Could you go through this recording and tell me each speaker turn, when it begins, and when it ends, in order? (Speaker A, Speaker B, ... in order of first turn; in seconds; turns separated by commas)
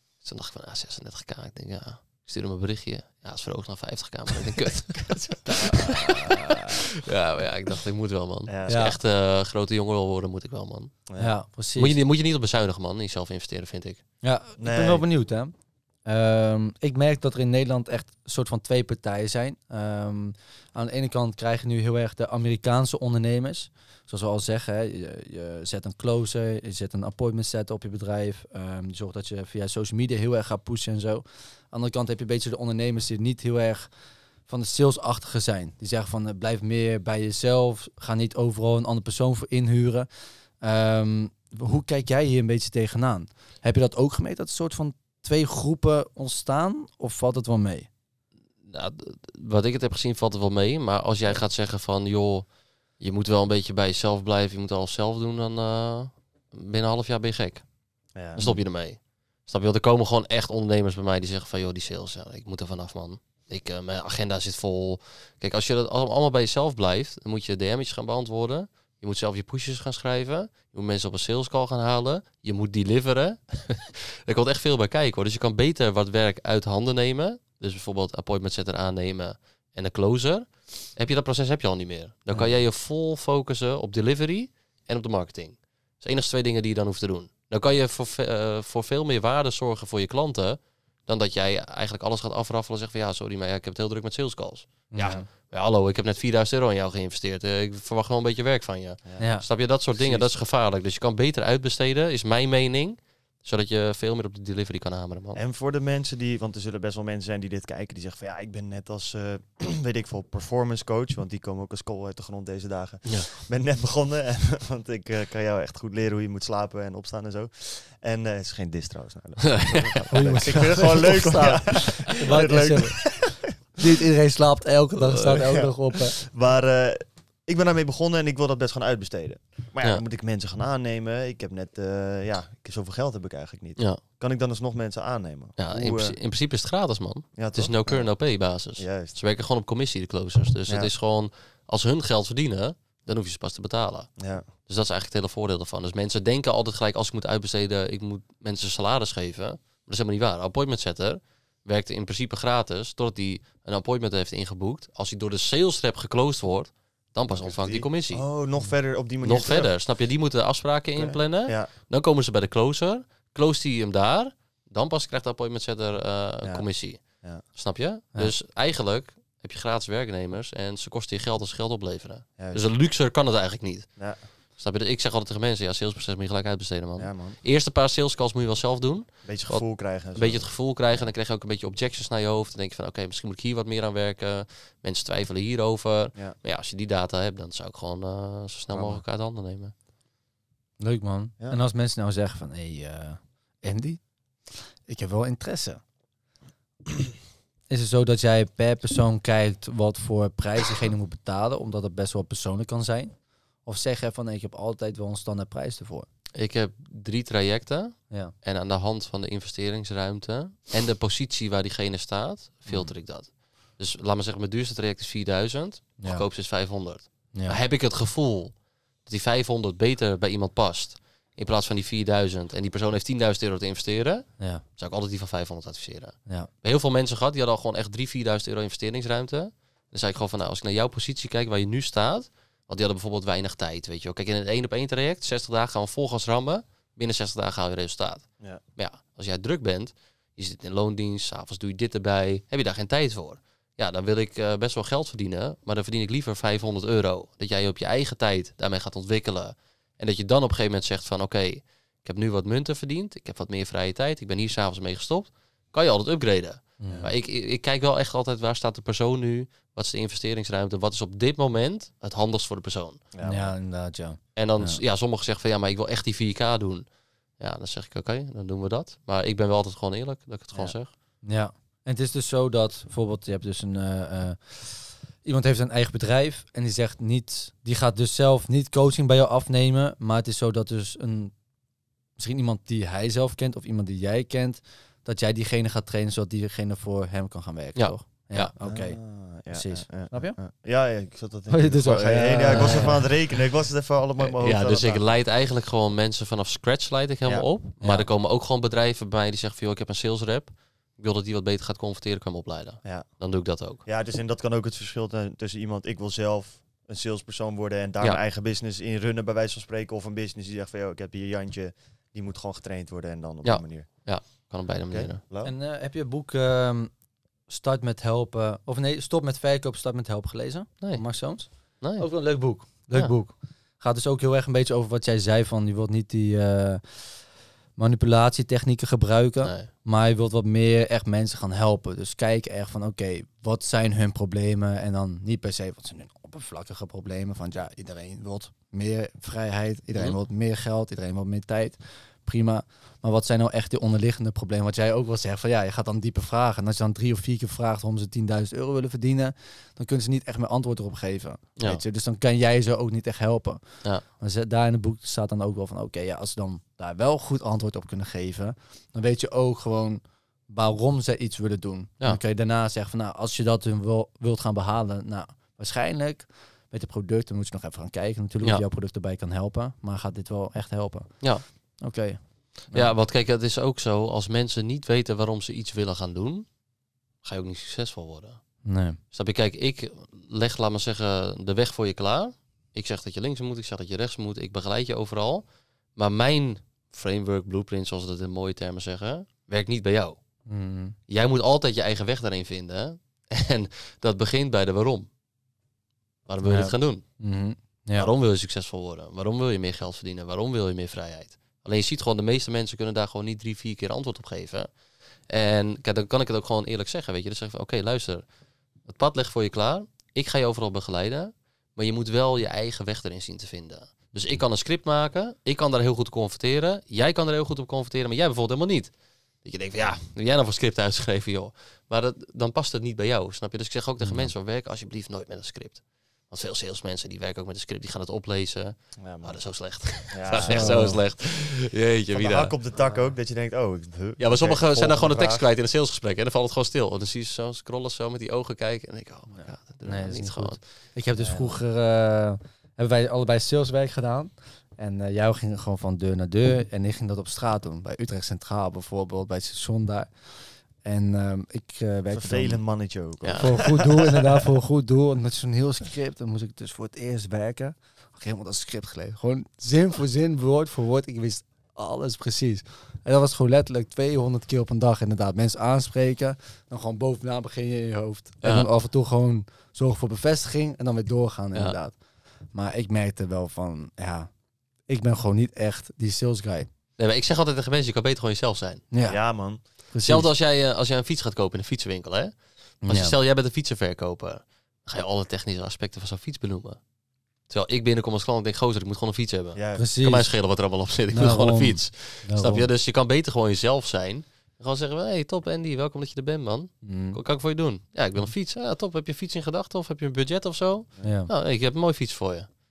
Speaker A: 0.2-11.0, Speaker B: 5.1-6.0, Speaker B: 8.5-8.8, Speaker C: 8.7-9.0, Speaker B: 11.1-11.3, Speaker C: 11.2-11.9, Speaker A: 11.7-14.0, Speaker C: 14.2-33.9, Speaker B: 14.6-15.1, Speaker C: 34.4-47.9, Speaker A: 48.6-57.6, Speaker B: 58.1-58.4, Speaker A: 58.3-105.4, Speaker C: 94.9-95.3, Speaker C: 99.2-99.5, Speaker B: 99.8-100.3, Speaker B: 105.3-123.5, Speaker A: 119.4-121.0, Speaker C: 120.1-126.2, Speaker B: 125.1-136.2, Speaker A: 135.6-158.3, Speaker B: 137.3-139.2, Speaker B: 144.2-144.4, Speaker B: 157.3-159.7, Speaker A: 159.2-189.7, Speaker B: 160.9-161.7, Speaker B: 166.4-167.4, Speaker B: 172.4-172.7, Speaker B: 174.0-174.2, Speaker B: 177.0-177.4, Speaker B: 179.2-181.1, Speaker B: 188.7-189.0, Speaker C: 190.8-195.8, Speaker C: 197.7-206.1, Speaker A: 206.3-263.0, Speaker C: 216.0-216.2, Speaker C: 217.3-217.6, Speaker C: 256.8-257.1, Speaker B: 263.1-263.5, Speaker C: 263.2-264.8, Speaker A: 264.3-266.8, Speaker A: 267.4-270.9, Speaker C: 271.2-281.4, Speaker C: 282.2-290.4, Speaker A: 287.7-288.5, Speaker B: 288.6-295.1, Speaker C: 291.5-293.1, Speaker A: 292.6-293.1, Speaker A: 294.2-303.8, Speaker B: 302.8-315.5, Speaker A: 313.4-315.2, Speaker C: 315.4-316.9, Speaker C: 317.5-372.9, Speaker A: 320.8-322.1, Speaker A: 329.4-329.7, Speaker A: 351.6-351.8, Speaker A: 372.7-376.5, Speaker A: 377.2-385.4, Speaker C: 378.6-379.0, Speaker A: 385.9-390.2, Speaker C: 390.5-390.9, Speaker A: 391.1-395.1, Speaker A: 396.3-397.1, Speaker C: 396.4-398.1, Speaker A: 397.9-404.7, Speaker A: 405.3-408.2, Speaker A: 408.8-432.6, Speaker C: 424.0-424.3, Speaker B: 429.0-430.9, Speaker C: 430.4-431.0, Speaker B: 432.1-435.4, Speaker C: 432.8-433.1, Speaker A: 434.2-440.6, Speaker C: 439.8-452.6, Speaker B: 441.1-441.6, Speaker B: 452.1-454.4, Speaker A: 453.2-453.7, Speaker C: 453.4-474.3, Speaker A: 468.4-468.7, Speaker C: 474.8-476.7, Speaker A: 477.0-478.8, Speaker C: 478.9-480.3, Speaker B: 479.0-479.6, Speaker A: 480.0-486.8, Speaker C: 482.8-483.1, Speaker A: 487.5-502.5, Speaker B: 489.5-489.9, Speaker C: 489.8-490.3, Speaker C: 491.1-492.7, Speaker C: 496.8-497.2, Speaker C: 501.0-501.3